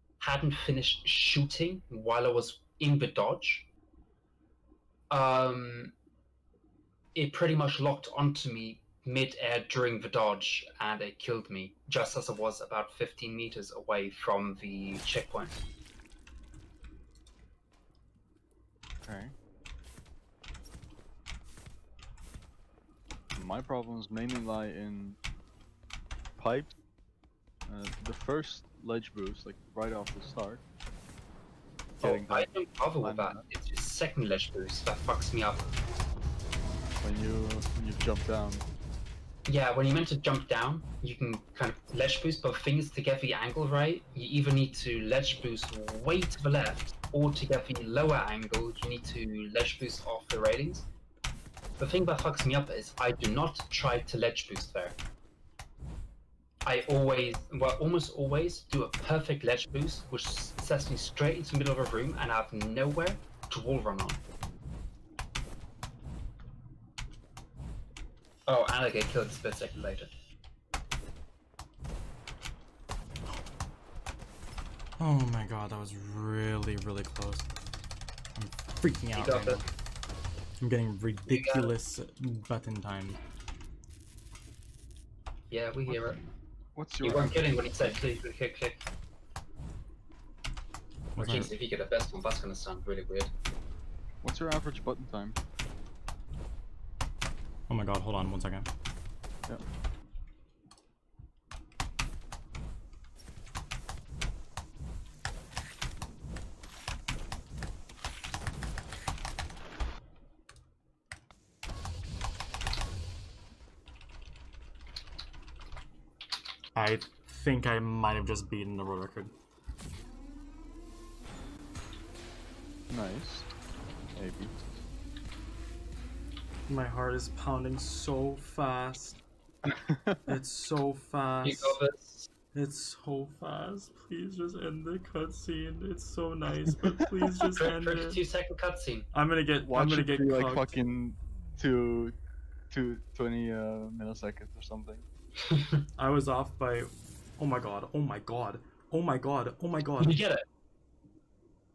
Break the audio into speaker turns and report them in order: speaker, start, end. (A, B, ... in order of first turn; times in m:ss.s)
0:00.2-0:03.7 A
0:05.1-0:05.9 A
0:07.1-0:15.6 A
0:19.0-0:19.3 B
0:23.4-0:25.2 B
0:26.4-0:26.7 B
0:27.6-0:30.6 B
0:32.0-0:33.4 B
0:32.0-0:35.6 A
0:37.0-0:38.6 B
0:39.4-0:50.9 A
0:51.8-0:55.0 A
0:56.6-1:04.2 A
1:08.5-1:10.1 A
1:15.0-1:17.5 C
1:18.4-1:19.6 C
1:19.1-1:19.6 A
1:20.6-1:23.2 C
1:21.3-1:21.7 A
1:25.5-1:26.2 A
1:26.7-1:28.0 B
1:27.0-1:28.8 A
1:31.1-1:31.5 C
1:31.2-1:33.3 A
1:34.2-1:35.4 B
1:37.7-1:38.7 C
1:56.7-1:59.3 C
2:02.9-2:03.5 B
2:04.1-2:04.6 B
2:06.7-2:09.2 C
2:09.6-2:10.3 B
2:10.3-2:11.8 C
2:11.4-2:12.3 A
2:12.5-2:18.2 C
2:17.6-2:19.1 A
2:19.1-2:20.7 C
2:19.6-2:22.2 B
2:22.7-2:25.0 B
2:25.5-2:25.8 A
2:26.0-2:30.2 C
2:30.0-2:30.4 A